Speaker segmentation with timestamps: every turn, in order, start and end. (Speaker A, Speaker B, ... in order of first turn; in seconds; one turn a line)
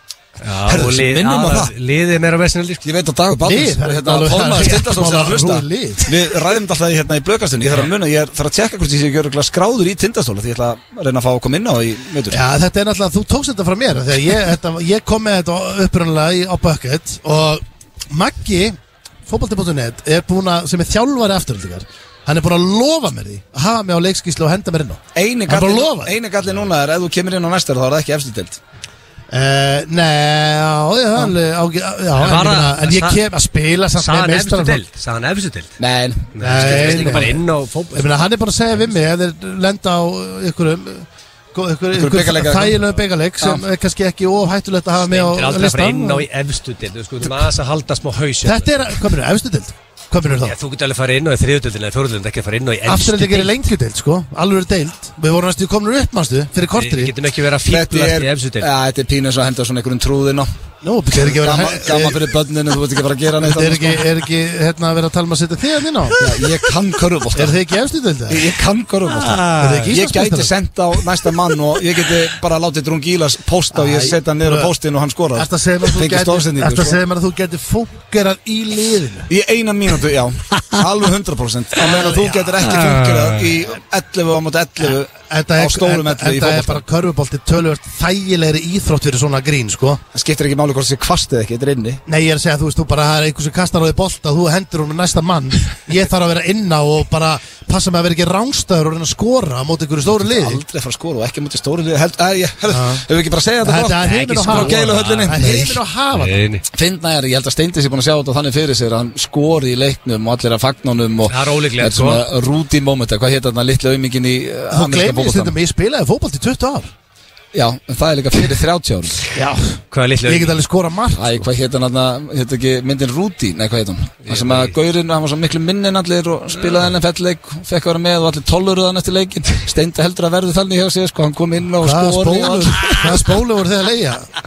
Speaker A: 0.4-2.8
Speaker B: 0.7-1.7
Speaker B: 2.8-12.4
Speaker C: 3.4-6.1
Speaker C: 12.3-18.8
Speaker C: 19.3-26.1
Speaker B: 25.1-28.6
Speaker C: 29.3-34.8
Speaker A: 32.2-33.2
Speaker A: 34.0-35.8
Speaker B: 35.8-37.3
Speaker A: 36.3-38.2
Speaker C: 36.4-37.4
Speaker C: 37.9-46.2
Speaker B: 41.9-42.8
Speaker A: 45.1-49.0
Speaker C: 48.4-50.5
Speaker A: 50.3-53.6
Speaker C: 52.9-57.1
Speaker A: 56.7-58.7
Speaker B: 57.7-60.5
Speaker C: 60.8-62.3
Speaker B: 61.1-64.1
Speaker C: 63.4-66.2
Speaker B: 66.2-67.6
Speaker C: 67.3-68.5
Speaker B: 68.3-77.0
Speaker C: 69.2-70.5
Speaker C: 73.7-74.7
Speaker C: 75.3-79.3
Speaker B: 79.3-86.8
Speaker C: 81.8-82.8
Speaker C: 85.3-90.0
Speaker B: 90.1-92.0
Speaker C: 92.1-100.6
Speaker B: 100.0-105.8
Speaker C: 102.7-103.0
Speaker C: 103.6-106.4
Speaker A: 104.0-105.5
Speaker A: 106.1-106.6
Speaker B: 106.7-115.5
Speaker A: 111.3-112.2
Speaker C: 114.7-116.9
Speaker B: 117.5-119.2
Speaker C: 119.3-121.4
Speaker A: 119.9-120.6
Speaker B: 121.1-133.3
Speaker A: 124.2-124.7
Speaker C: 131.8-134.3